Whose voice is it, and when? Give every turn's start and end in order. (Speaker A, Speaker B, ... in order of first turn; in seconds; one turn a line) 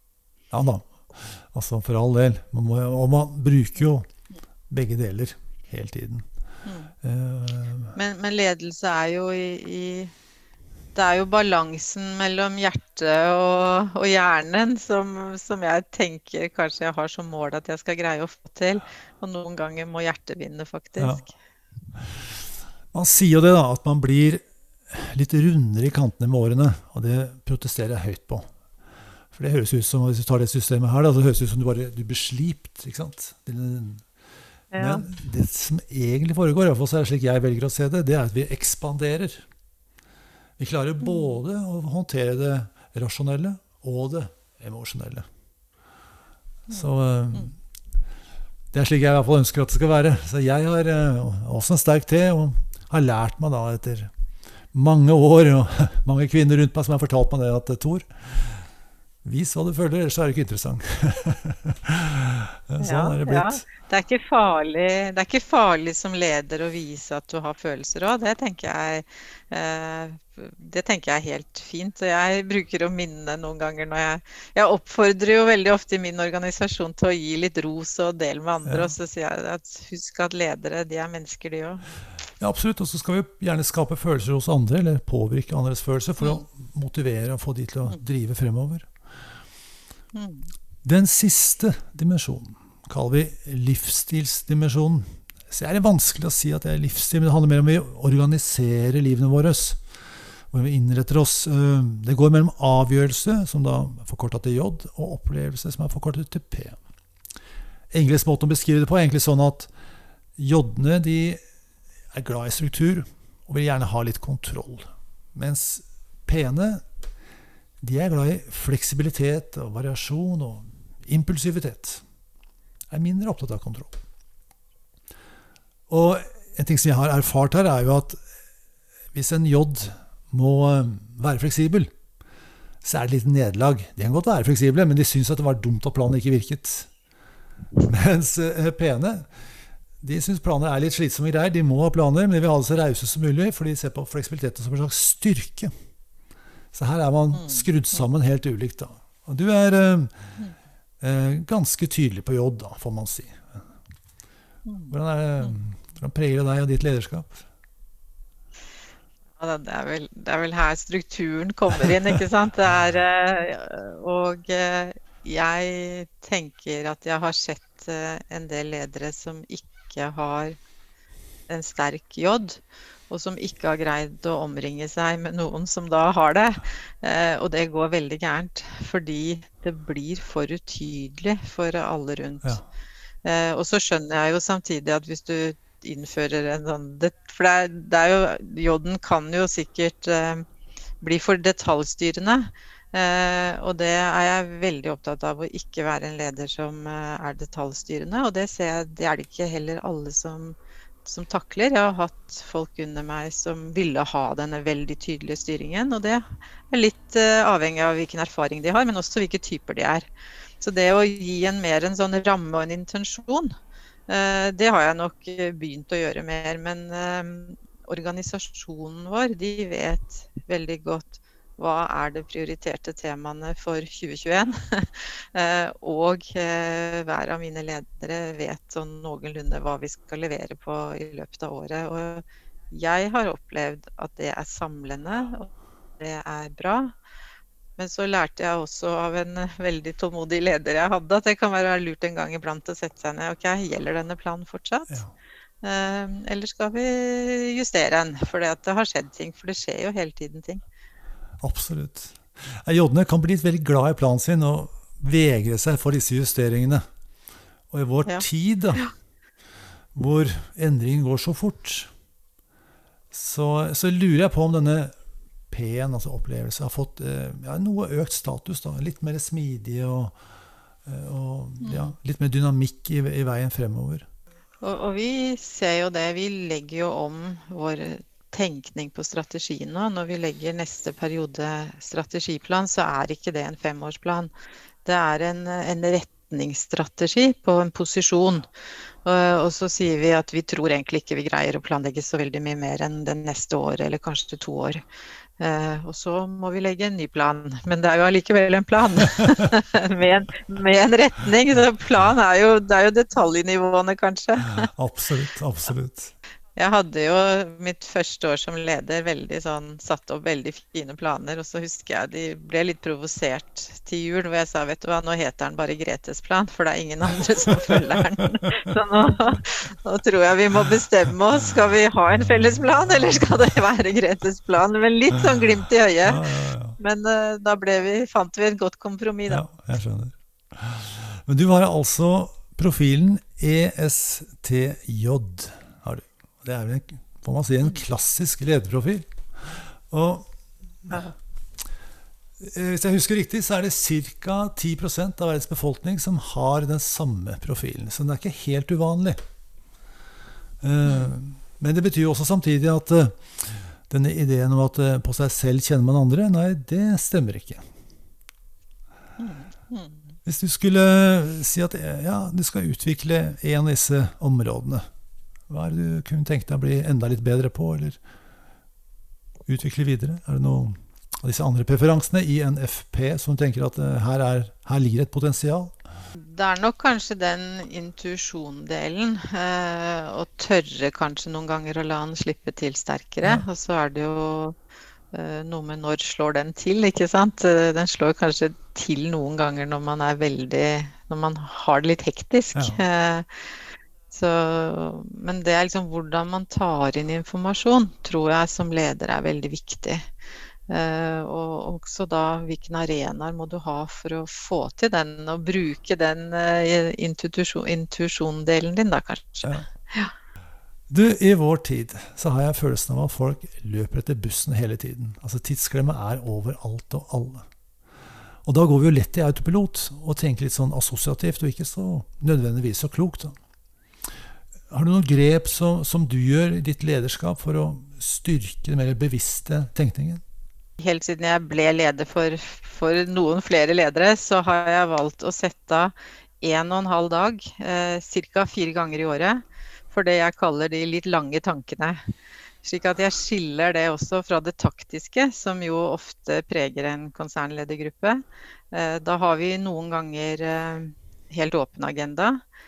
Speaker A: 0.5-4.1
Speaker A: 4.7-6.3
Speaker B: 6.7-6.9
Speaker A: 7.0-8.0
Speaker B: 8.0-10.1
Speaker B: 10.9-21.3
Speaker A: 21.0-21.2
Speaker A: 22.9-28.5
Speaker A: 29.3-34.0
Speaker B: 34.7-35.1
Speaker A: 34.8-39.5
Speaker A: 40.6-45.3
Speaker A: 46.7-47.5
Speaker A: 48.7-54.1
Speaker A: 54.7-58.7
Speaker A: 59.2-63.7
Speaker B: 62.8-81.8
Speaker A: 78.7-78.9
Speaker A: 82.4-88.9
Speaker B: 90.1-90.5
Speaker A: 90.8-99.8
Speaker A: 100.5-106.8
Speaker A: 107.9-109.7
Speaker A: 110.4-111.4
Speaker A: 112.1-116.8
Speaker A: 117.8-122.0
Speaker A: 122.9-124.0
Speaker A: 125.9-128.2
Speaker A: 129.1-131.9
Speaker A: 132.8-136.9
Speaker A: 137.8-139.3
Speaker A: 140.0-145.7
Speaker A: 146.7-150.1
Speaker B: 147.3-147.7
Speaker A: 151.0-153.6
Speaker B: 154.7-155.6
Speaker A: 154.9-157.4
Speaker B: 159.4-170.6
Speaker B: 171.5-182.6
Speaker B: 183.2-190.5
Speaker B: 191.0-210.1
Speaker B: 210.6-213.5
Speaker B: 214.1-236.9
Speaker B: 237.8-245.0
Speaker B: 245.6-250.6
Speaker A: 251.4-256.8
Speaker A: 257.7-258.9
Speaker A: 259.9-261.9
Speaker A: 263.1-264.9
Speaker A: 265.5-270.1
Speaker A: 270.9-274.1
Speaker B: 271.6-271.9
Speaker B: 274.6-284.3
Speaker B: 284.9-288.5
Speaker B: 289.1-294.8
Speaker B: 295.4-304.7
Speaker A: 304.6-306.1
Speaker B: 306.6-329.4
Speaker A: 326.1-326.8
Speaker A: 329.3-340.3
Speaker A: 342.4-349.2
Speaker A: 350.6-357.7
Speaker B: 359.2-360.0
Speaker A: 360.2-364.9
Speaker A: 365.5-368.0
Speaker A: 369.5-375.8
Speaker B: 376.2-384.6
Speaker B: 385.1-393.6
Speaker A: 392.6-392.8
Speaker B: 394.1-400.1
Speaker B: 400.7-410.1
Speaker A: 410.9-417.5
Speaker A: 418.4-423.4
Speaker A: 424.7-430.2
Speaker B: 430.8-442.0
Speaker B: 442.6-452.4